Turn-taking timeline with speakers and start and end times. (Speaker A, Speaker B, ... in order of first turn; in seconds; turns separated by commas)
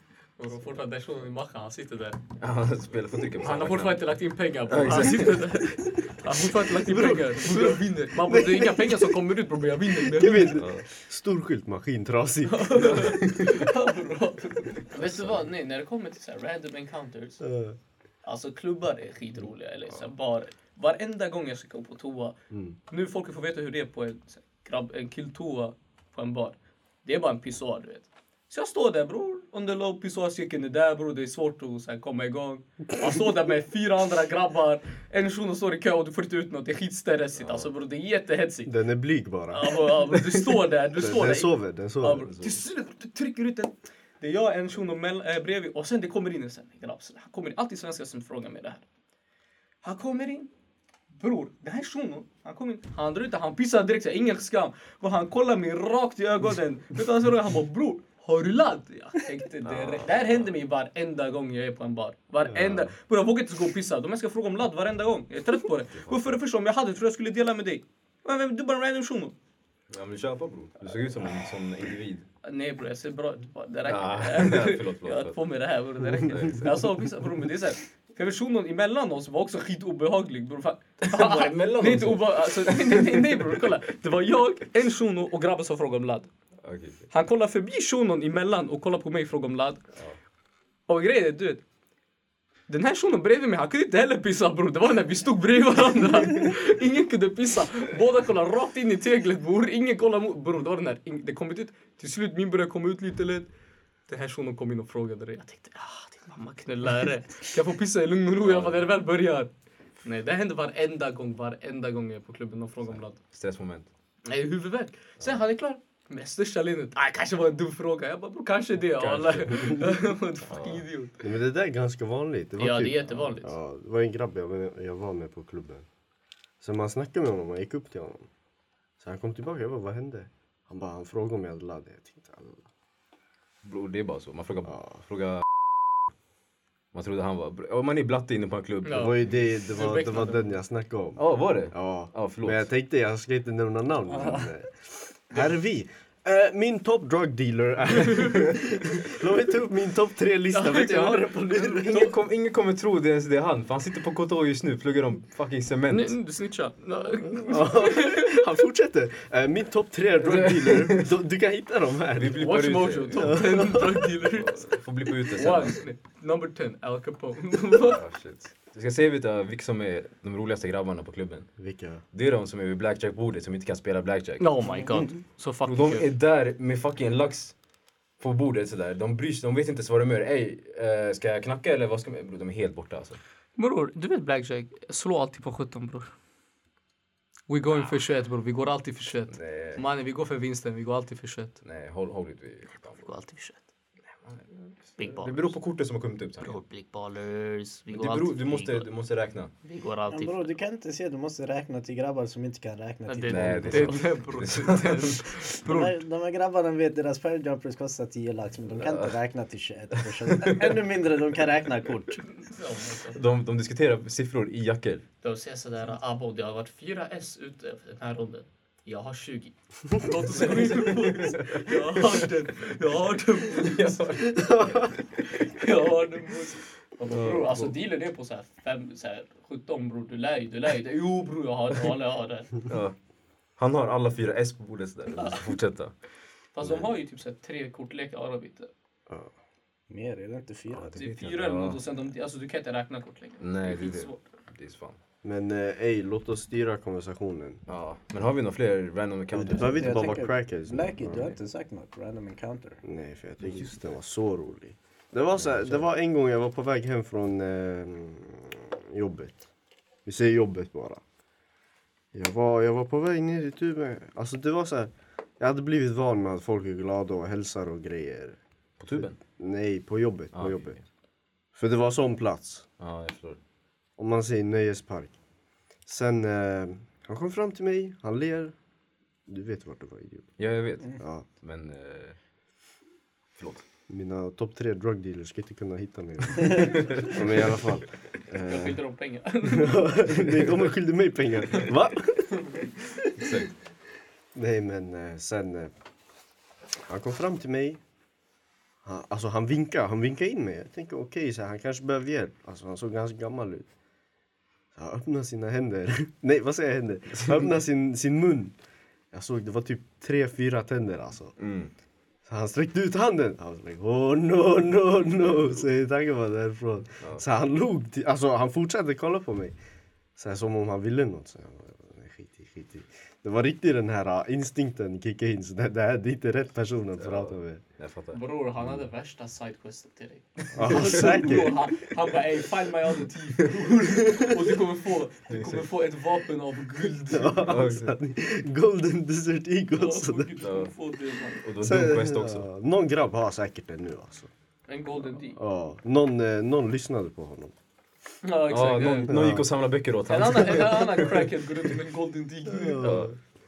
Speaker A: 0.4-2.2, Speaker B: 2.4-4.1, Speaker A: 3.4-10.6, Speaker B: 4.7-5.6, Speaker C: 6.7-9.2, Speaker C: 10.0-13.1, Speaker B: 10.5-10.8, Speaker A: 12.5-17.4, Speaker B: 12.8-13.6, Speaker B: 14.9-15.5, Speaker C: 17.4-17.8, Speaker A: 18.2-22.4, Speaker C: 22.5-22.8, Speaker A: 22.9-38.7, Speaker B: 37.4-37.7, Speaker C: 38.7-39.9, Speaker A: 39.5-48.8, Speaker C: 41.0-42.3, Speaker B: 42.3-42.6, Speaker A: 49.8-50.5, Speaker A: 51.1-69.3, Speaker B: 59.6-60.5, Speaker B: 62.5-62.9, Speaker B: 65.9-66.4, Speaker B: 69.9-72.3, Speaker A: 72.4-86.3, Speaker B: 73.9-75.4, Speaker B: 76.3-76.8, Speaker B: 81.0-83.7, Speaker B: 86.6-87.1, Speaker A: 87.1-89.8, Speaker A: 90.9-91.6, Speaker A: 92.7-103.5, Speaker A: 104.1-109.5, Speaker B: 108.4-108.8, Speaker A: 110.0-113.2, Speaker B: 112.8-113.9, Speaker A: 114.3-121.2, Speaker B: 119.0-119.9, Speaker B: 120.5-120.8, Speaker C: 121.2-125.9, Speaker A: 122.6-123.5, Speaker C: 126.6-128.3, Speaker C: 129.0-132.7, Speaker B: 133.6-135.4, Speaker B: 136.9-139.3, Speaker A: 138.8-140.5, Speaker C: 139.0-152.1, Speaker B: 141.2-142.7, Speaker A: 144.1-144.5, Speaker A: 150.5-152.2, Speaker B: 151.8-156.2, Speaker A: 155.9-158.4, Speaker C: 157.3-162.5, Speaker B: 160.2-161.1, Speaker B: 162.2-163.6, Speaker A: 162.4-164.7, Speaker C: 163.2-164.0, Speaker B: 164.2-165.8, Speaker A: 165.3-168.0, Speaker B: 167.8-171.5, Speaker C: 171.6-172.0, Speaker B: 172.1-174.5, Speaker A: 174.4-176.1, Speaker B: 175.7-177.6, Speaker B: 178.2-183.2, Speaker A: 183.6-186.1, Speaker A: 187.5-191.6, Speaker B: 189.3-189.8, Speaker B: 191.6-193.1, Speaker A: 192.7-193.6, Speaker B: 194.3-196.6, Speaker A: 195.0-195.6, Speaker A: 196.4-198.9, Speaker B: 197.9-199.5, Speaker A: 199.6-200.6, Speaker D: 200.1-204.0, Speaker A: 203.1-206.0, Speaker B: 203.3-205.3, Speaker D: 205.6-212.3, Speaker B: 208.7-209.1, Speaker B: 210.2-210.8, Speaker A: 212.4-213.2, Speaker B: 213.1-215.1, Speaker A: 215.2-224.0, Speaker B: 220.4-222.2, Speaker B: 223.5-224.9, Speaker C: 224.3-224.9, Speaker A: 225.2-232.6, Speaker B: 227.1-227.7, Speaker B: 232.7-232.9, Speaker B: 233.6-235.9, Speaker A: 235.1-235.4, Speaker A: 236.5-238.7, Speaker D: 239.9-241.0, Speaker B: 240.7-241.8, Speaker A: 241.0-244.3, Speaker B: 243.4-245.0, Speaker C: 245.2-247.6, Speaker B: 247.7-250.2, Speaker C: 249.3-251.4, Speaker D: 249.5-252.8, Speaker C: 252.8-259.4, Speaker B: 253.4-253.7, Speaker B: 255.4-255.8, Speaker C: 260.1-261.0, Speaker C: 262.1-268.4, Speaker B: 268.8-269.2, Speaker C: 268.9-270.8, Speaker B: 270.3-270.8, Speaker C: 271.6-272.7, Speaker B: 272.8-273.4, Speaker C: 274.0-275.2, Speaker C: 275.9-278.6, Speaker C: 279.3-280.4, Speaker B: 280.4-282.2, Speaker C: 281.0-281.2, Speaker B: 283.4-283.7, Speaker C: 283.9-288.8, Speaker B: 286.7-287.1, Speaker A: 288.4-289.9, Speaker C: 289.4-292.4, Speaker B: 290.2-290.6, Speaker A: 292.3-292.7, Speaker B: 293.2-293.5, Speaker C: 294.3-295.7, Speaker C: 296.9-297.8, Speaker C: 298.8-303.7, Speaker C: 304.8-308.6, Speaker C: 309.1-311.4, Speaker B: 311.4-311.7, Speaker C: 312.3-319.6, Speaker C: 320.2-327.6, Speaker B: 327.0-328.2, Speaker A: 328.1-337.5, Speaker C: 330.5-331.7, Speaker B: 330.7-331.5, Speaker B: 335.3-335.6, Speaker C: 337.1-340.3, Speaker B: 337.4-337.9, Speaker A: 339.7-341.4, Speaker B: 340.4-340.7, Speaker B: 341.4-342.5, Speaker C: 341.6-344.3, Speaker A: 344.7-345.4, Speaker C: 345.3-347.6, Speaker A: 348.2-349.1, Speaker B: 348.5-351.3, Speaker C: 349.1-349.5, Speaker A: 350.1-352.9, Speaker C: 352.5-353.1, Speaker B: 352.8-353.1